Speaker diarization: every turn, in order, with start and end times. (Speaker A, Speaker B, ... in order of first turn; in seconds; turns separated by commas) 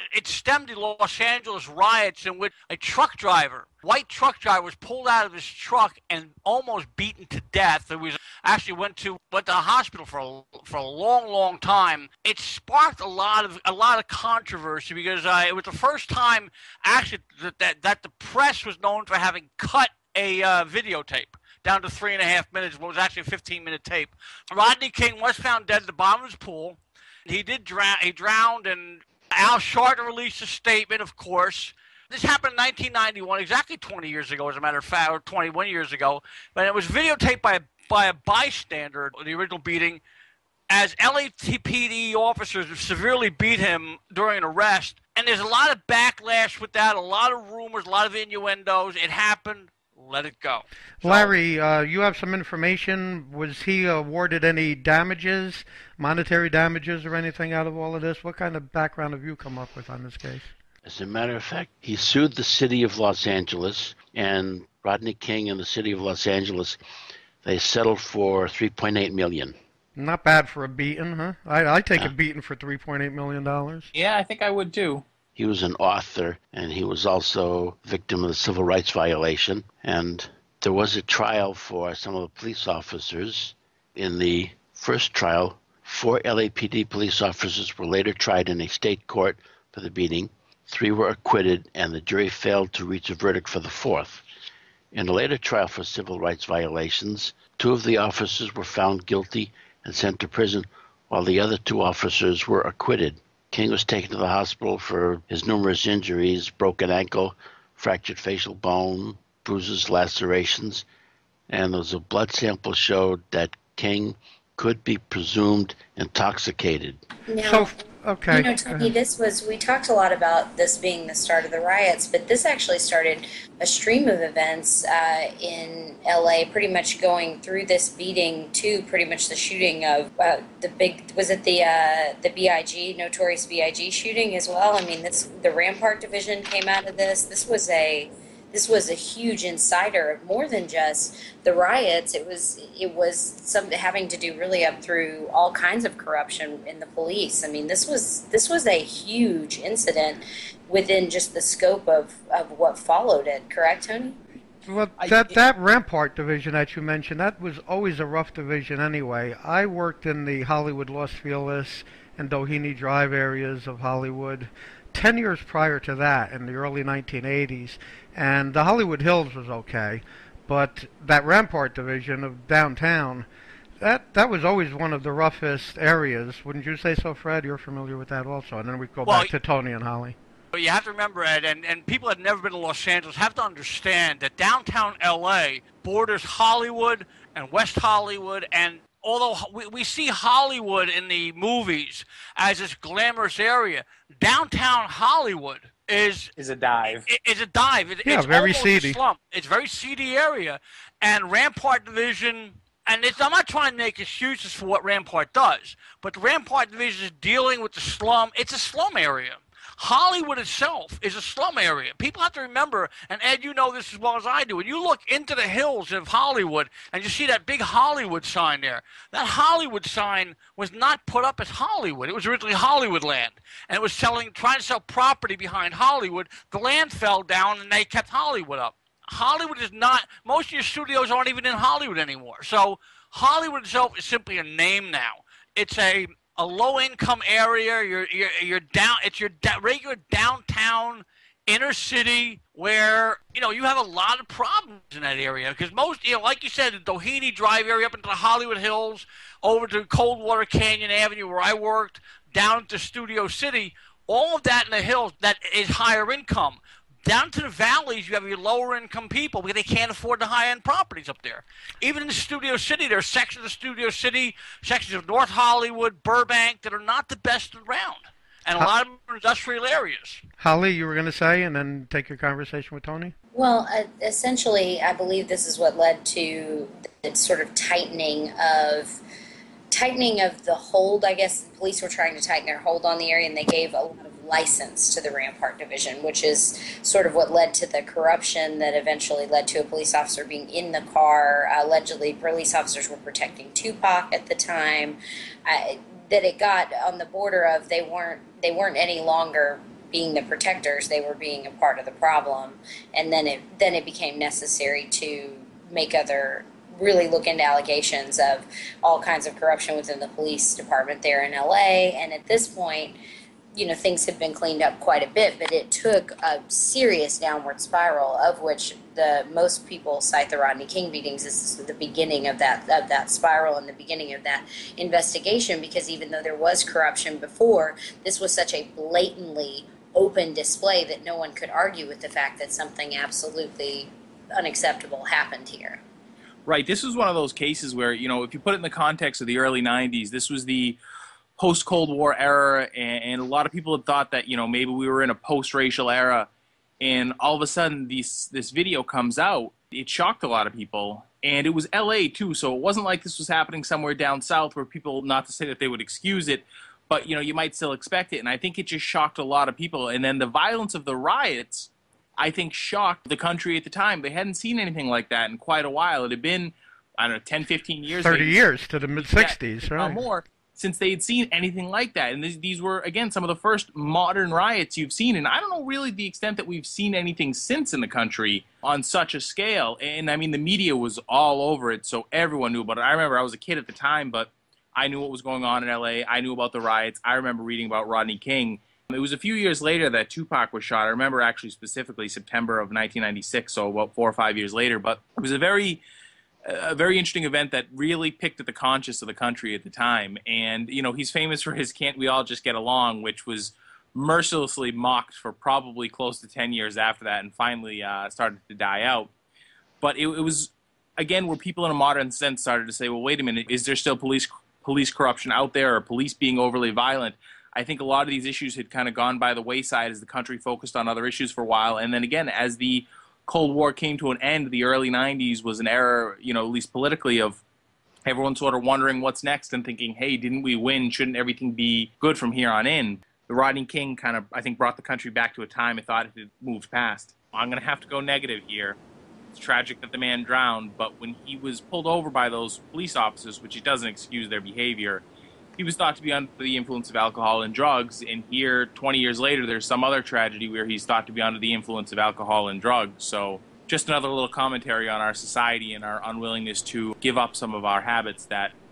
Speaker A: 0.1-40.0, Speaker A: 40.7-51.3, Speaker B: 51.0-60.5, Speaker C: 60.8-66.8, Speaker C: 67.4-69.5, Speaker B: 70.0-73.9, Speaker D: 73.9-75.0, Speaker C: 75.3-94.2, Speaker C: 94.9-110.8, Speaker C: 111.5-117.0, Speaker E: 117.3-117.7, Speaker B: 117.4-118.9, Speaker E: 118.3-154.2, Speaker B: 154.6-173.3, Speaker D: 155.0-155.3, Speaker B: 173.8-180.2, Speaker A: 179.1-179.3, Speaker A: 180.5-196.3, Speaker D: 196.4-197.1, Speaker A: 196.8-270.2, Speaker B: 198.0-199.0, Speaker B: 270.4-273.1, Speaker E: 273.3-279.0, Speaker E: 279.7-312.9, Speaker E: 313.5-335.8, Speaker D: 336.4-340.8, Speaker D: 341.4-346.3, Speaker D: 346.8-368.4, Speaker B: 368.0-370.0, Speaker D: 369.0-395.8, Speaker D: 396.4-409.1, Speaker D: 409.8-427.4, Speaker D: 428.0-438.8, Speaker D: 439.3-445.0, Speaker D: 445.6-458.5